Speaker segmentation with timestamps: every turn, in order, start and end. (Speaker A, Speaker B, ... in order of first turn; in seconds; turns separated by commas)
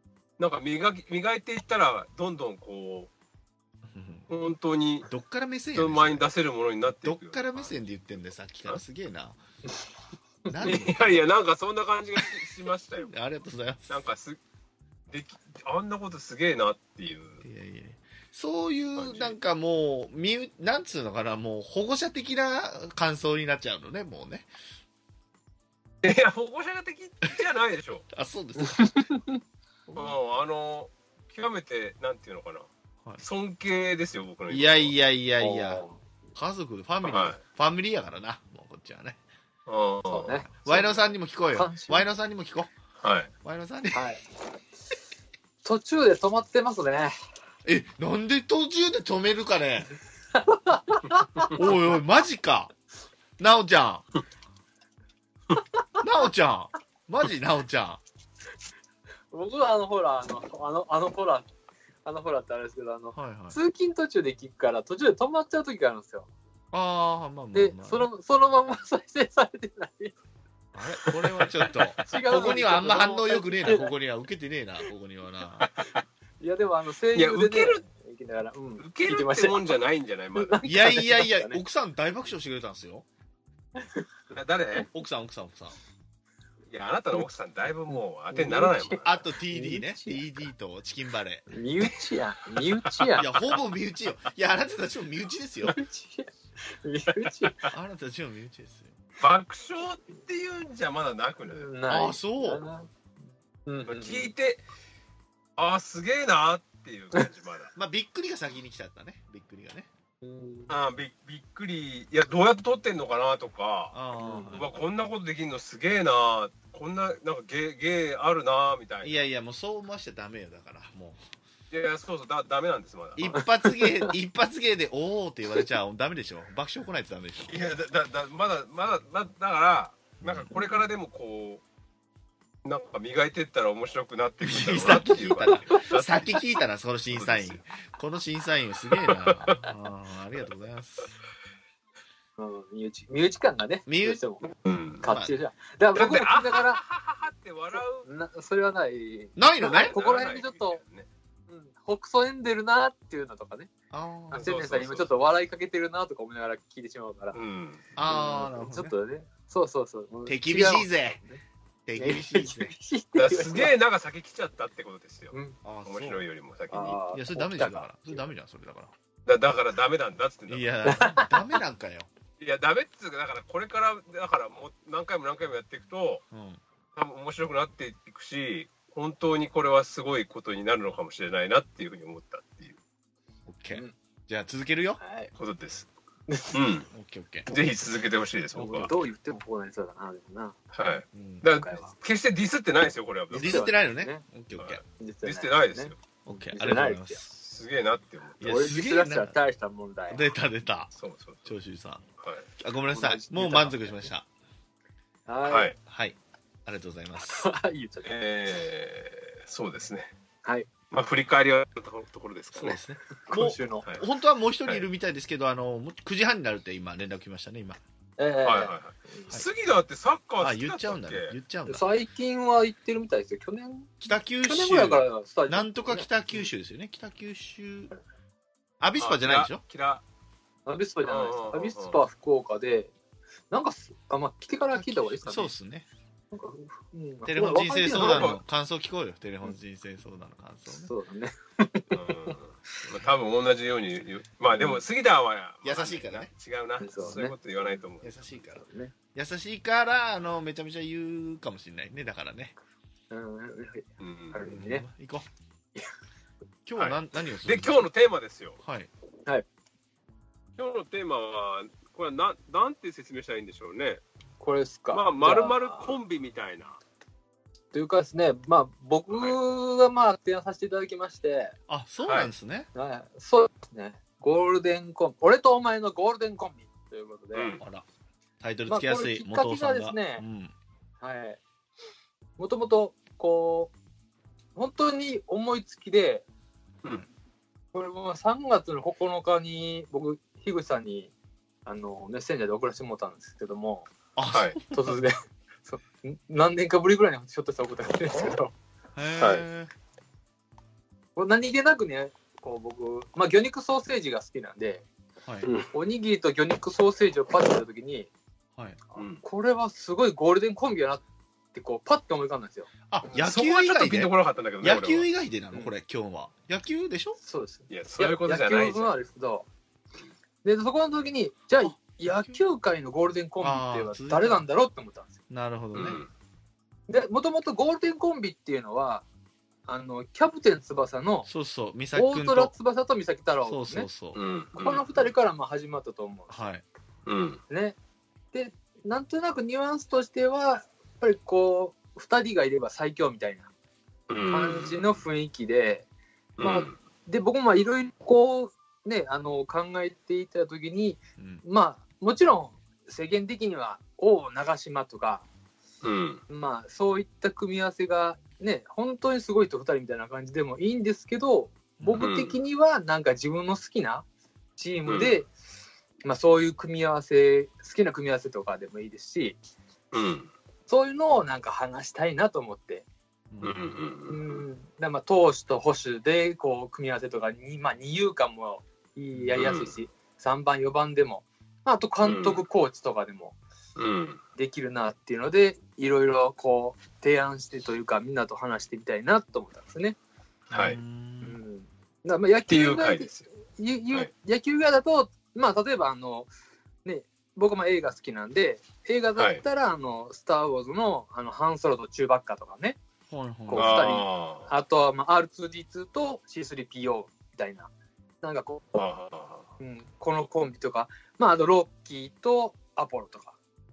Speaker A: 0.4-3.1, Speaker B: 3.9-4.3, Speaker A: 4.3-5.1, Speaker B: 5.1-6.2, Speaker A: 5.8-7.8, Speaker B: 7.0-9.4, Speaker B: 10.5-11.2, Speaker A: 10.6-13.1, Speaker B: 13.0-14.0, Speaker A: 13.9-14.4, Speaker A: 15.1-17.4, Speaker B: 17.4-24.5, Speaker A: 18.9-19.4, Speaker A: 26.0-28.1, Speaker B: 28.1-29.0, Speaker C: 29.9-30.1, Speaker A: 29.9-32.7, Speaker A: 33.2-34.9, Speaker B: 34.5-35.8, Speaker C: 35.4-36.0, Speaker B: 36.3-39.2, Speaker A: 37.0-37.4, Speaker A: 39.7-41.0, Speaker C: 40.1-40.5, Speaker B: 40.5-42.7, Speaker C: 41.5-42.0, Speaker A: 43.0-43.3, Speaker B: 43.4-44.1, Speaker C: 43.9-44.2, Speaker C: 45.6-47.1, Speaker B: 47.6-49.9, Speaker C: 50.3-51.7, Speaker B: 51.5-52.7, Speaker B: 53.4-54.0, Speaker B: 56.0-58.0, Speaker C: 59.3-61.5, Speaker C: 62.0-66.3, Speaker B: 63.1-63.6, Speaker B: 66.7-68.1, Speaker C: 67.5-70.1, Speaker B: 70.7-75.7, Speaker C: 72.0-73.9, Speaker A: 72.1-72.6, Speaker A: 75.6-75.9, Speaker C: 76.4-79.6, Speaker A: 77.1-77.8, Speaker A: 78.8-80.6, Speaker C: 80.3-81.6, Speaker B: 80.6-83.0, Speaker C: 83.8-84.0, Speaker A: 84.3-84.9, Speaker B: 84.9-85.8, Speaker A: 86.7-89.2, Speaker C: 87.9-90.2, Speaker B: 89.0-91.5, Speaker C: 91.5-93.3, Speaker A: 93.0-93.3, Speaker B: 93.2-95.8, Speaker C: 95.7-97.7, Speaker B: 97.7-99.0, Speaker A: 99.2-101.7, Speaker C: 101.5-102.9, Speaker B: 101.9-102.6, Speaker C: 103.7-104.3, Speaker A: 103.8-104.6, Speaker A: 105.6-107.7, Speaker B: 107.8-109.9, Speaker C: 110.2-110.7, Speaker A: 110.7-114.0, Speaker B: 113.9-114.7, Speaker C: 114.2-114.5, Speaker A: 114.5-119.2, Speaker B: 119.0-121.2, Speaker A: 121.7-123.4, Speaker B: 123.2-127.6, Speaker C: 123.3-124.1, Speaker A: 127.5-131.6, Speaker B: 130.2-130.5, Speaker A: 132.7-136.4, Speaker B: 134.4-141.1, Speaker A: 137.1-137.6, Speaker A: 139.0-139.6, Speaker C: 142.4-144.5, Speaker B: 143.9-144.2, Speaker A: 144.6-145.0, Speaker C: 145.0-146.8, Speaker B: 145.0-145.4, Speaker A: 145.9-148.1, Speaker C: 147.7-150.8, Speaker B: 149.3-149.9, Speaker A: 149.7-151.1, Speaker C: 151.5-153.7, Speaker B: 153.9-154.5, Speaker A: 154.3-155.1, Speaker C: 154.3-157.4, Speaker A: 157.3-157.8, Speaker B: 158.0-158.9, Speaker C: 158.1-161.4, Speaker B: 160.2-161.2, Speaker B: 161.8-162.7, Speaker C: 162.0-163.8, Speaker A: 163.2-167.0, Speaker C: 165.3-165.6, Speaker B: 165.6-166.2, Speaker C: 166.7-168.2, Speaker B: 167.1-168.9, Speaker A: 169.2-170.7, Speaker B: 170.5-172.1, Speaker C: 170.8-171.3, Speaker A: 172.4-176.2, Speaker B: 176.3-176.6, Speaker A: 177.0-182.8, Speaker B: 183.5-185.0, Speaker C: 185.0-185.3, Speaker A: 185.4-185.9, Speaker C: 186.3-186.5, Speaker A: 186.5-186.9, Speaker B: 186.9-187.5, Speaker A: 187.5-188.9, Speaker C: 188.5-190.6, Speaker A: 190.7-193.7, Speaker B: 191.1-191.4, Speaker C: 191.5-191.9, Speaker C: 193.3-194.2, Speaker B: 193.3-194.8, Speaker A: 194.6-196.0, Speaker C: 195.0-197.2, Speaker B: 196.2-197.4, Speaker A: 197.4-198.4, Speaker B: 198.4-199.3, Speaker C: 198.4-200.3, Speaker B: 200.1-200.9, Speaker A: 200.9-201.5, Speaker B: 201.4-202.0, Speaker B: 202.6-204.3, Speaker C: 202.9-203.9, Speaker C: 205.3-205.7, Speaker A: 205.5-205.7, Speaker B: 205.8-207.4, Speaker C: 207.3-208.2, Speaker A: 208.0-210.1, Speaker A: 210.9-212.8, Speaker B: 212.5-217.8, Speaker C: 213.2-213.9, Speaker C: 218.2-219.3, Speaker A: 218.4-221.4, Speaker B: 220.4-221.8, Speaker C: 221.7-223.9, Speaker B: 224.0-227.9, Speaker C: 224.4-226.4, Speaker B: 228.8-229.6, Speaker A: 229.0-230.0, Speaker C: 230.7-232.9, Speaker A: 231.0-232.0, Speaker C: 233.5-235.5, Speaker B: 234.7-235.8, Speaker C: 236.3-238.3, Speaker B: 237.2-240.9, Speaker A: 237.9-238.4, Speaker C: 240.7-242.3, Speaker A: 241.9-248.2, Speaker C: 244.5-244.8, Speaker B: 245.6-246.3, Speaker C: 246.8-247.8, Speaker B: 248.0-248.6, Speaker C: 248.6-248.9, Speaker B: 249.1-252.5, Speaker C: 253.1-254.8, Speaker A: 254.0-254.4, Speaker B: 254.4-255.2, Speaker B: 256.6-257.9, Speaker A: 256.8-258.6, Speaker B: 258.6-258.9, Speaker A: 260.6-264.0, Speaker C: 264.4-266.0, Speaker A: 264.9-266.8, Speaker C: 267.7-271.5, Speaker B: 271.7-272.7, Speaker A: 272.0-272.3, Speaker C: 272.7-277.6, Speaker A: 277.4-277.6, Speaker B: 277.6-277.9, Speaker B: 278.4-280.5, Speaker C: 278.7-280.2, Speaker C: 281.0-281.4, Speaker C: 282.4-283.7, Speaker C: 284.5-286.2, Speaker C: 287.7-291.1, Speaker C: 291.6-293.9, Speaker B: 294.1-295.0, Speaker A: 294.3-294.6, Speaker C: 294.7-298.5, Speaker B: 299.0-299.7, Speaker A: 299.2-299.4, Speaker C: 301.1-304.9, Speaker A: 305.4-305.7, Speaker C: 305.7-308.1, Speaker A: 309.0-309.2, Speaker C: 309.0-313.3, Speaker B: 312.9-317.2, Speaker A: 313.2-315.1, Speaker C: 317.2-319.5, Speaker A: 317.7-318.9, Speaker C: 320.4-325.1, Speaker B: 322.0-322.4, Speaker B: 323.4-324.5, Speaker B: 325.3-326.0, Speaker A: 325.7-326.1, Speaker C: 326.9-329.0, Speaker C: 329.6-331.3, Speaker B: 331.2-332.5, Speaker C: 331.9-333.9, Speaker B: 333.5-334.2, Speaker A: 334.1-335.1, Speaker C: 334.5-336.5, Speaker B: 336.3-336.6, Speaker A: 337.1-337.4, Speaker C: 337.5-337.8, Speaker C: 338.3-343.5, Speaker A: 344.1-344.9, Speaker C: 344.3-345.9, Speaker A: 346.4-346.8, Speaker C: 346.4-355.2, Speaker B: 351.2-351.4, Speaker A: 355.8-356.2, Speaker C: 356.3-364.0, Speaker B: 361.8-362.1, Speaker A: 362.0-362.4, Speaker C: 364.6-365.3, Speaker A: 364.9-365.2, Speaker C: 366.0-369.4, Speaker A: 369.9-370.3, Speaker C: 370.7-372.8, Speaker B: 373.3-373.8, Speaker A: 373.4-374.4, Speaker C: 374.1-383.4, Speaker B: 379.1-379.4, Speaker A: 379.4-379.7, Speaker A: 382.0-382.4, Speaker A: 383.8-384.2, Speaker C: 384.4-390.0, Speaker A: 390.5-390.8, Speaker B: 390.5-391.4, Speaker C: 391.2-396.3, Speaker A: 392.5-393.2, Speaker C: 396.8-402.8, Speaker B: 403.1-403.8, Speaker C: 403.5-407.7, Speaker A: 403.5-404.5, Speaker C: 408.2-408.6, Speaker A: 408.7-409.5, Speaker C: 409.6-413.4